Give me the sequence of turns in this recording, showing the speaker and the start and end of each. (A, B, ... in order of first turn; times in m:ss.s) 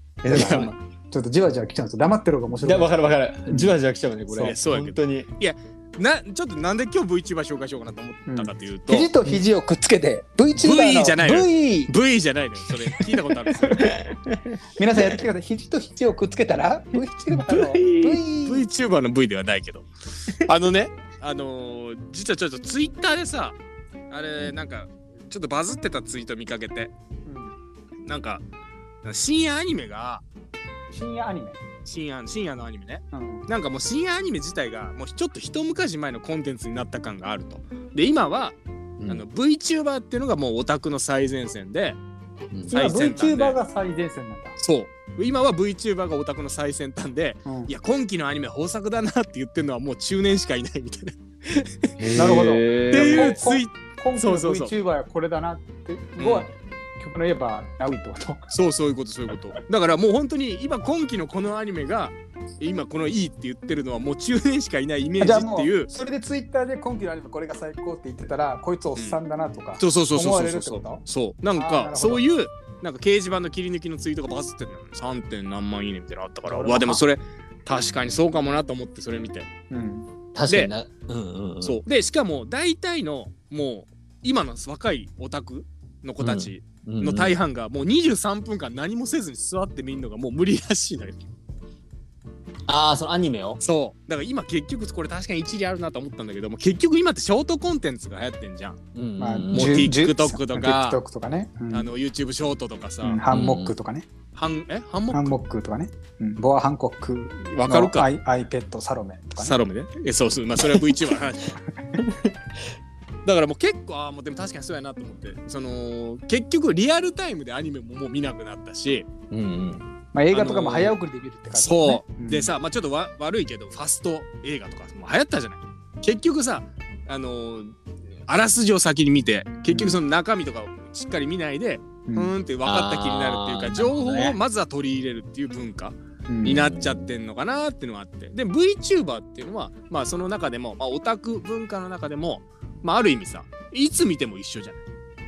0:00.2-0:00.7 A
0:00.3-0:02.9 B
0:00.3-0:00.7 C
0:02.6-0:05.3 A
0:03.5-0:03.7 B
0:04.3-0:04.6 B
0:04.4-0:09.1 C
0:08.3-0:11.9 B
0:10.6-0:13.9 C
0:13.7-0:14.6 A
0:14.8-0:18.6 B
0:17.3-0:18.2 A
0:18.4-0:23.6 C
0:24.1-0:26.9 C
0:27.3-0:27.6 B
0:28.0-0:28.4 C
0:29.0-0:30.2 C
0:30.9-0:31.6 B
0:31.8-0:42.0 C
0:33.1-0:33.4 B
0:39.0-0:39.2 A
0:42.5-0:42.8 A
0:42.7-0:43.6 C
0:42.7-0:44.6 B
0:44.6-0:52.3 C
0:47.4-0:47.7 B
0:52.0-0:53.4 A
0:52.1-0:58.4 B
0:52.9-0:54.7 C
0:56.2-0:56.5 C
0:58.5-1:05.9 C
1:05.2-1:11.0 B
1:09.8-1:19.5 C
1:11.6-1:12.2 B
1:16.5-1:17.0 B
1:19.7-1:20.1 B
1:20.3-1:21.8 A
1:21.6-1:31.3 C
1:26.2-1:27.3 A
1:32.7-1:33.6 A
1:33.6-1:38.8 C
1:38.9-1:39.9 A
1:39.2-1:41.9 B
1:39.5-1:41.0 C
1:41.7-1:43.2 C
1:43.0-1:44.1 B
1:43.3-1:43.7 A
1:44.3-1:45.4 C
1:45.1-1:49.6 B
1:47.5-1:48.1 C
1:49.4-1:51.6 C
1:52.0-1:52.6 A
1:53.2-1:59.1 C
1:59.3-1:59.9 A
2:00.1-2:02.5 B
2:00.3-2:01.0 C
2:01.5-2:07.7 C
2:08.3-2:24.8 C
2:09.7-2:10.0 B
2:12.1-2:12.3 B
2:12.6-2:14.4 A
2:16.3-2:16.7 B
2:16.4-2:17.1 A